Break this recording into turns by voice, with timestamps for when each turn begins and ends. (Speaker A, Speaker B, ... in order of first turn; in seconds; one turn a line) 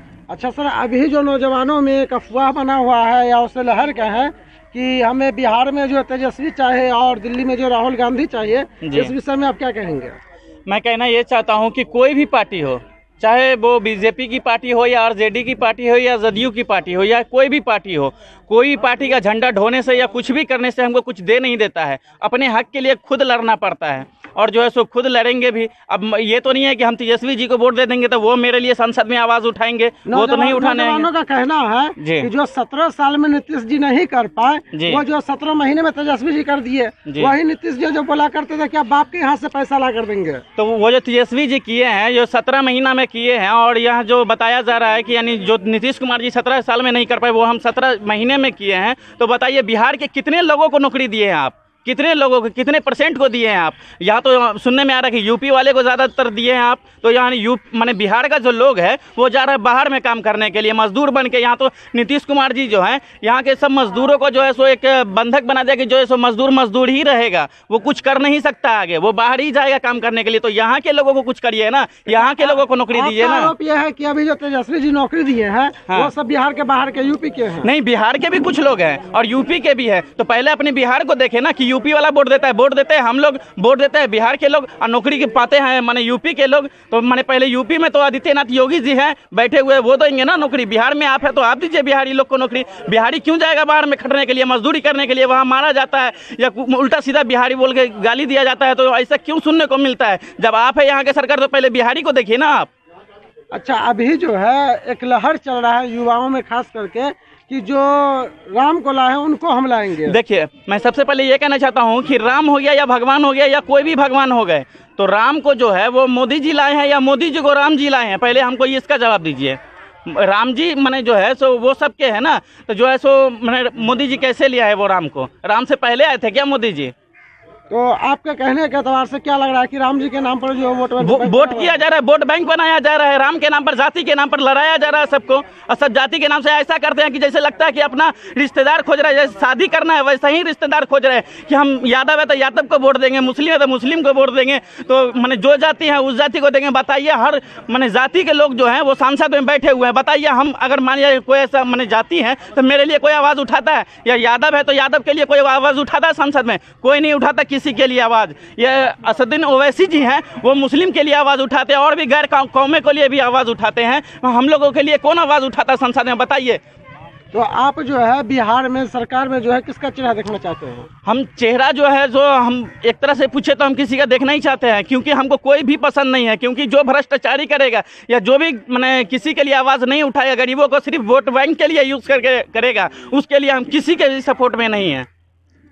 Speaker A: 0.3-10.2
Speaker B: 8.8-9.1
Speaker B: 10.7-31.1
Speaker A: 30.1-40.4
Speaker B: 32.0-32.3
Speaker B: 34.7-35.0
Speaker B: 37.1-37.4
Speaker B: 40.6-73.5
Speaker A: 72.3-77.7
Speaker B: 77.6-102.7
Speaker A: 103.5-110.2
Speaker B: 110.1-126.9
Speaker A: 127.7-131.8
Speaker B: 131.0-166.6
Speaker A: 167.3-170.9
Speaker B: 171.1-185.1